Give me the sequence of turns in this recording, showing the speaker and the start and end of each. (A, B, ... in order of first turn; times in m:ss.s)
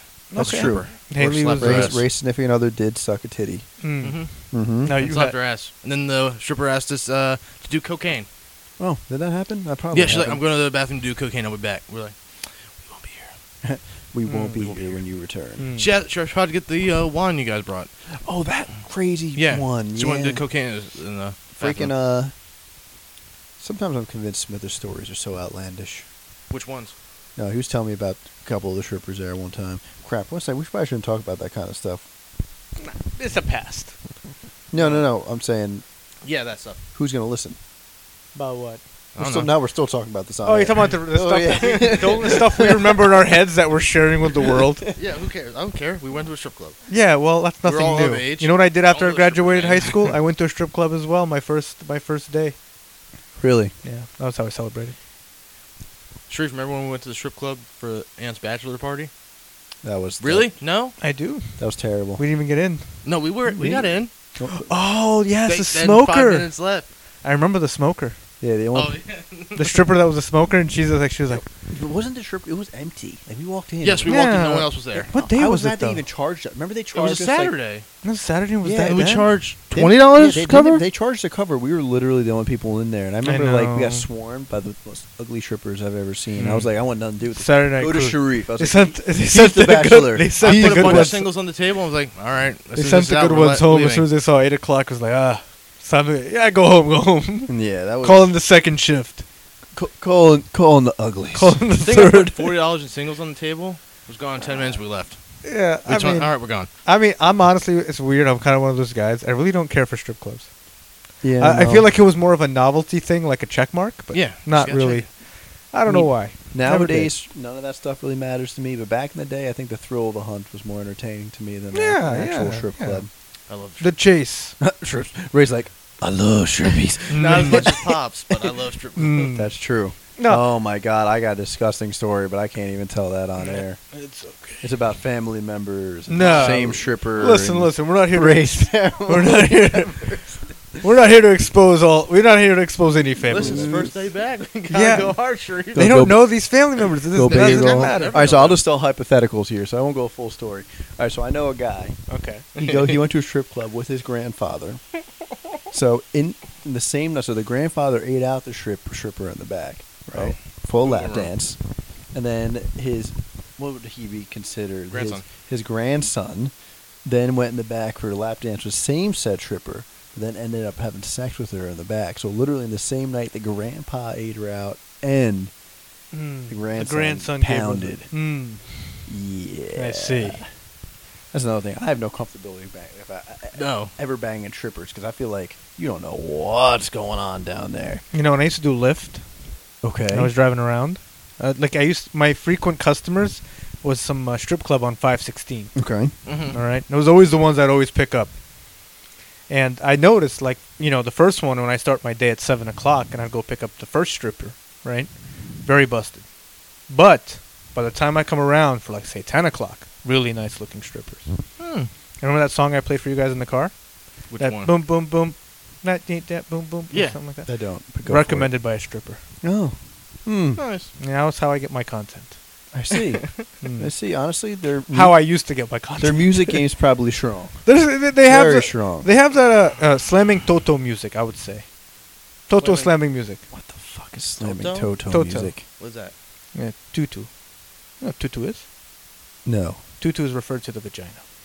0:00.3-0:02.0 A
0:00.4-0:02.0 B
0:00.4-0:00.9 C
0:01.6-0:03.7 C
0:03.8-0:04.2 A
0:04.0-0:04.3 B
0:04.5-0:04.9 C
0:04.8-0:05.3 A
0:04.9-0:08.3 B
0:08.8-0:10.4 C
0:09.9-0:13.3 B
0:13.6-0:15.6 C
0:14.3-0:15.0 B
0:15.6-0:15.9 A
0:15.8-0:17.9 B
0:18.2-0:20.4 C
0:19.4-0:21.9 B
0:21.5-0:22.3 C
0:23.6-0:26.0 C
0:26.5-0:26.9 B
0:27.4-0:32.0 C
0:32.8-0:33.9 A
0:34.7-0:35.8 C
0:34.8-0:35.0 B
0:36.2-0:36.8 B
0:36.9-0:37.6 C
0:38.3-0:38.8 A
0:39.2-0:39.5 B
0:39.2-0:43.2 C
0:40.4-0:44.9 A
0:41.6-0:42.0 B
0:44.4-0:44.7 C
0:44.9-0:46.8 B
0:46.9-0:52.6 A
0:47.6-0:50.1 B
0:53.4-0:53.7 C
0:53.8-0:54.9 A
0:56.3-0:59.1 B
0:59.8-1:00.5 C
1:00.2-1:01.0 B
1:01.0-1:01.6 A
1:01.6-1:02.2 C
1:02.2-1:02.9 A
1:03.0-1:04.1 B
1:03.4-1:04.7 C
1:04.5-1:06.5 A
1:05.5-1:06.9 B
1:07.2-1:08.2 A
1:08.4-1:08.9 C
1:08.7-1:09.8 B
1:09.6-1:11.4 A
1:11.7-1:14.2 C
1:13.8-1:15.1 B
1:14.0-1:16.0 A
1:15.1-1:17.6 C
1:16.9-1:17.9 B
1:18.0-1:19.3 A
1:18.6-1:19.1 C
1:18.8-1:20.8 B
1:19.7-1:31.2 C
1:23.2-1:24.0 A
1:26.4-1:26.7 A
1:27.3-1:31.2 A
1:30.4-1:34.1 B
1:32.8-1:39.2 A
1:37.5-1:38.3 C
1:39.7-1:41.6 C
1:41.3-1:42.6 A
1:41.8-1:45.2 B
1:45.4-1:50.5 A
1:45.8-1:46.7 B
1:51.2-1:51.9 C
1:51.4-1:57.1 A
1:54.1-1:55.1 B
1:55.9-2:03.1 C
2:01.7-2:03.0 A
2:03.5-2:03.9 B
2:03.8-2:04.6 A
2:04.6-2:07.8 C
2:07.1-2:09.4 B
2:07.1-2:07.7 A
2:09.0-2:09.5 A
2:09.2-2:13.8 C
2:10.2-2:10.4 A
2:13.4-2:14.6 A
2:14.6-2:20.4 C
2:16.1-2:20.1 A
2:16.2-2:16.7 B
2:20.8-2:23.8 A
2:23.2-2:25.9 B
2:23.3-2:23.9 C
2:24.7-2:28.2 A
2:25.7-2:26.3 C
2:27.1-2:32.0 C
2:27.2-2:28.6 B
2:32.1-2:32.5 A
2:32.6-2:33.0 B
2:32.6-2:34.8 C
2:35.7-2:41.6 C
2:40.1-2:41.3 B
2:42.1-2:46.5 C
2:44.9-2:45.2 B
2:47.0-2:55.5 C
2:56.1-2:59.1 A
2:56.5-2:58.1 C
2:59.1-3:00.5 C
2:59.7-3:00.4 A
3:01.3-3:08.0 C
3:03.5-3:03.9 B
3:08.1-3:09.2 A
3:09.8-3:10.3 C
3:10.1-3:15.7 A
3:15.7-3:16.1 C
3:16.2-3:16.6 B
3:16.5-3:18.3 A
3:19.5-3:25.1 A
3:25.6-3:26.2 A
3:26.9-3:31.3 A
3:31.6-3:31.9 B
3:32.2-3:33.7 A
3:34.3-3:34.7 B
3:34.4-3:37.5 A
3:36.9-3:37.2 B
3:37.4-3:38.5 C
3:38.0-3:39.2 A
3:39.4-3:40.6 C
3:40.6-3:40.9 B
3:41.0-3:42.4 A
3:42.7-3:45.2 C
3:43.6-3:43.9 A
3:44.9-3:46.6 A
3:46.0-3:47.6 C
3:47.6-3:51.6 A
3:48.2-3:49.1 C
3:52.5-3:53.4 A
3:52.6-3:52.9 B
3:53.5-3:55.6 C
3:54.4-3:54.9 B
3:55.1-3:55.5 A
3:55.8-3:56.1 B
3:56.5-3:57.3 A
3:58.0-3:58.6 A
3:59.4-3:59.8 C
4:00.0-4:01.2 A